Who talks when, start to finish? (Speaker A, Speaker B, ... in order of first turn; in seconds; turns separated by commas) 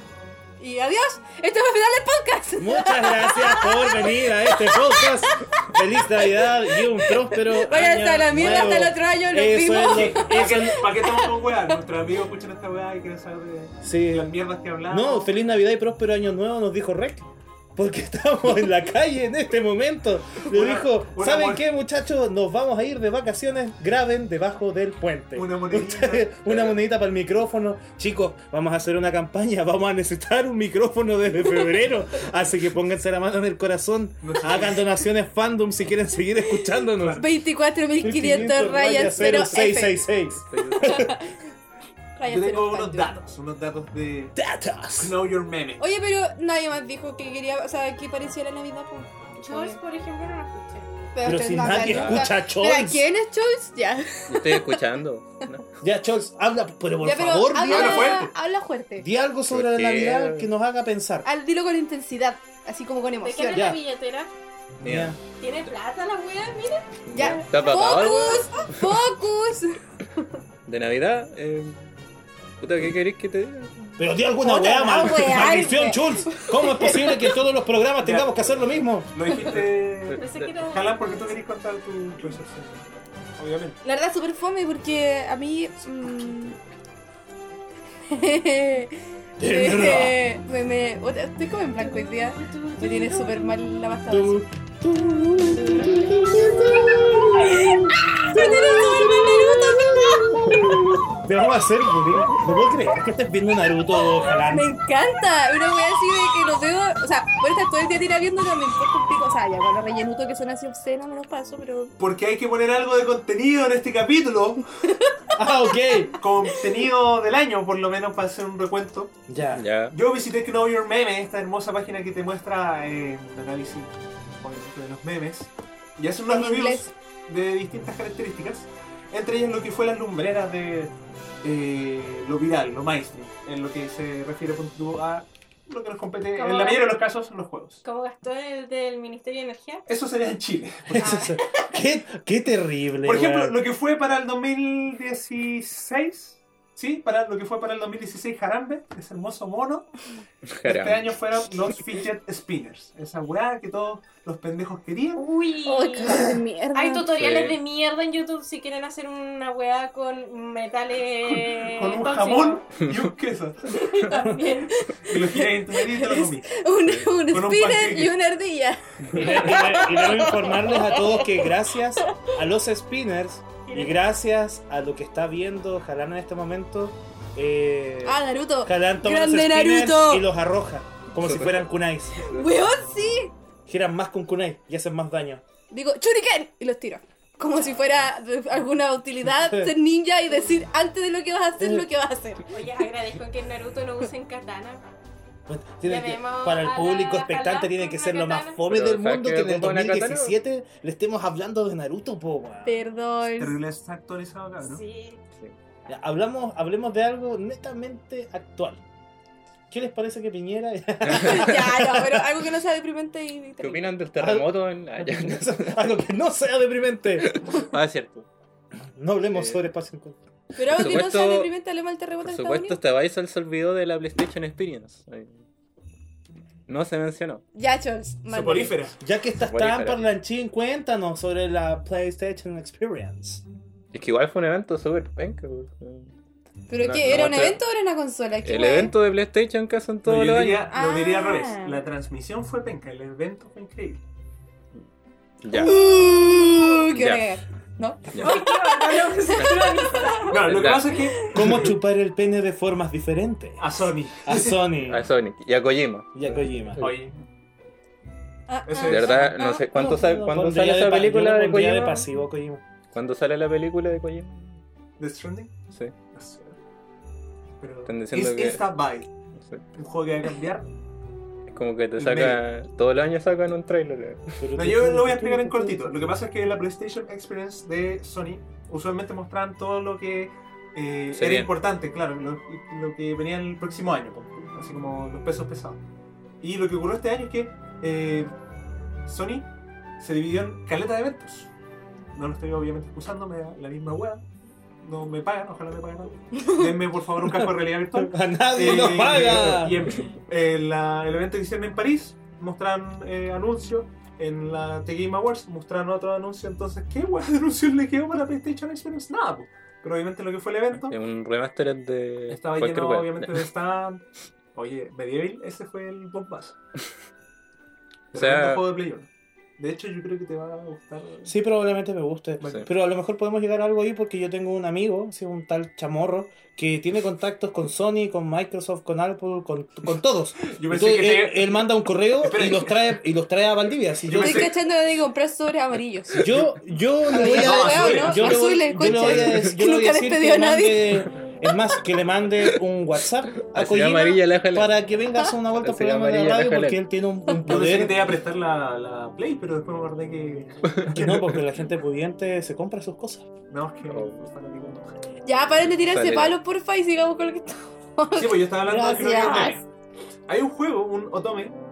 Speaker A: 0.6-11.5, Speaker B: 2.6-10.8, Speaker C: 9.8-15.3, Speaker B: 13.8-14.3, Speaker B: 14.9-37.3, Speaker C: 20.4-21.6, Speaker C: 25.3-26.4, Speaker C: 34.2-34.9, Speaker C: 36.9-37.3, Speaker A: 37.1-40.0, Speaker B: 38.0-41.1, Speaker D: 40.4-41.0, Speaker A: 40.8-41.4, Speaker A: 42.1-43.1, Speaker C: 42.3-44.4, Speaker B: 44.4-45.2, Speaker C: 44.9-45.9, Speaker A: 45.8-49.8, Speaker E: 49.4-50.9, Speaker A: 51.1-54.8, Speaker B: 51.2-53.0, Speaker D: 51.7-52.3, Speaker D: 54.3-55.8, Speaker B: 55.8-58.2, Speaker A: 57.0-59.0, Speaker C: 57.6-58.3, Speaker B: 59.0-61.3, Speaker D: 59.5-60.5, Speaker A: 61.2-63.7, Speaker E: 63.2-64.3, Speaker B: 63.5-63.8, Speaker B: 64.8-65.2, Speaker D: 64.8-65.2, Speaker E: 65.3-67.3, Speaker D: 67.1-69.0, Speaker A: 67.1-69.8, Speaker D: 70.7-71.9, Speaker D: 72.6-73.7, Speaker B: 74.0-79.1, Speaker A: 74.4-77.3, Speaker C: 78.0-83.8, Speaker D: 79.5-80.5, Speaker E: 80.1-81.3, Speaker A: 83.8-86.6, Speaker C: 85.8-86.5, Speaker A: 88.1-94.4, Speaker B: 89.4-90.2, Speaker E: 91.8-94.0, Speaker B: 94.1-104.7, Speaker E: 96.2-96.4, Speaker A: 97.4-100.9, Speaker E: 98.3-100.3, Speaker A: 103.9-111.9, Speaker C: 112.0-114.7, Speaker B: 115.3-116.2, Speaker C: 116.2-119.2, Speaker B: 119.3-119.6, Speaker D: 119.5-120.0, Speaker C: 119.9-137.8, Speaker A: 126.3-126.9, Speaker E: 136.3-136.9, Speaker E: 137.8-139.9, Speaker C: 139.9-141.3, Speaker B: 140.9-143.6, Speaker E: 141.0-141.7, Speaker C: 143.0-149.9, Speaker D: 150.4-151.1, Speaker C: 150.6-155.2, Speaker E: 155.2-162.7, Speaker A: 155.6-157.1, Speaker D: 157.1-157.6, Speaker C: 161.2-163.8, Speaker E: 163.7-164.9, Speaker A: 164.7-171.5, Speaker C: 165.0-166.6, Speaker C: 167.3-168.1, Speaker D: 169.0-169.4, Speaker B: 169.1-182.3, Speaker E: 173.6-174.0, Speaker A: 178.0-180.2, Speaker D: 181.2-181.6, Speaker A: 182.2-183.3, Speaker B: 183.7-185.4, Speaker A: 185.7-192.5, Speaker B: 189.2-189.7, Speaker B: 191.6-191.9, Speaker E: 192.5-194.8, Speaker B: 195.5-202.8, Speaker E: 195.8-198.6, Speaker D: 198.7-200.3, Speaker A: 202.6-203.6, Speaker C: 203.3-204.8, Speaker E: 204.6-205.2, Speaker B: 205.9-208.8, Speaker B: 209.7-212.3, Speaker D: 211.1-211.4, Speaker A: 211.1-213.9, Speaker D: 213.6-215.8, Speaker B: 214.2-217.4, Speaker D: 217.2-218.3, Speaker B: 218.9-220.2, Speaker D: 219.3-219.6, Speaker A: 220.5-222.8, Speaker D: 220.7-221.5, Speaker D: 222.2-225.4, Speaker D: 226.7-227.4, Speaker A: 227.5-228.8, Speaker C: 228.3-229.0, Speaker B: 229.0-233.4, Speaker D: 229.4-230.0, Speaker D: 233.9-236.1, Speaker A: 236.7-238.9, Speaker D: 236.8-237.6, Speaker D: 238.4-240.7, Speaker C: 240.0-244.0, Speaker A: 240.7-241.8, Speaker D: 245.4-245.8, Speaker A: 245.5-250.1, Speaker D: 246.9-247.3, Speaker D: 248.1-248.4, Speaker E: 248.2-250.5, Speaker D: 249.4-251.0, Speaker C: 250.3-251.7, Speaker B: 251.3-255.0, Speaker C: 253.6-254.7, Speaker D: 254.8-256.9, Speaker B: 256.1-256.9, Speaker C: 256.8-257.2, Speaker A: 258.5-260.0, Speaker C: 258.6-259.4, Speaker D: 258.8-262.1, Speaker B: 259.7-262.6, Speaker D: 262.9-264.6, Speaker C: 265.0-266.6, Speaker D: 265.7-265.9, Speaker C: 267.6-269.1, Speaker D: 267.9-268.7, Speaker D: 269.3-269.6, Speaker C: 269.7-270.7, Speaker D: 271.5-274.4, Speaker C: 272.0-272.4, Speaker B: 274.4-276.1, Speaker C: 274.5-285.8, Speaker D: 281.1-281.5, Speaker C: 286.4-288.3, Speaker C: 289.0-291.5, Speaker C: 292.1-294.2, Speaker C: 294.8-311.0, Speaker B: 297.3-299.9, Speaker D: 310.8-313.4, Speaker C: 312.3-316.6, Speaker D: 318.1-318.7, Speaker C: 318.1-321.3, Speaker B: 321.2-334.5, Speaker C: 330.4-332.9, Speaker C: 334.0-334.6, Speaker A: 334.1-336.2, Speaker B: 336.2-348.1, Speaker C: 336.2-339.2, Speaker A: 337.1-341.0, Speaker D: 343.4-344.7, Speaker D: 345.6-346.8, Speaker C: 347.4-351.3, Speaker B: 350.9-353.2, Speaker C: 353.5-354.9, Speaker D: 353.8-354.2, Speaker A: 355.2-359.6, Speaker D: 355.8-356.4, Speaker C: 358.1-359.6, Speaker C: 360.3-361.6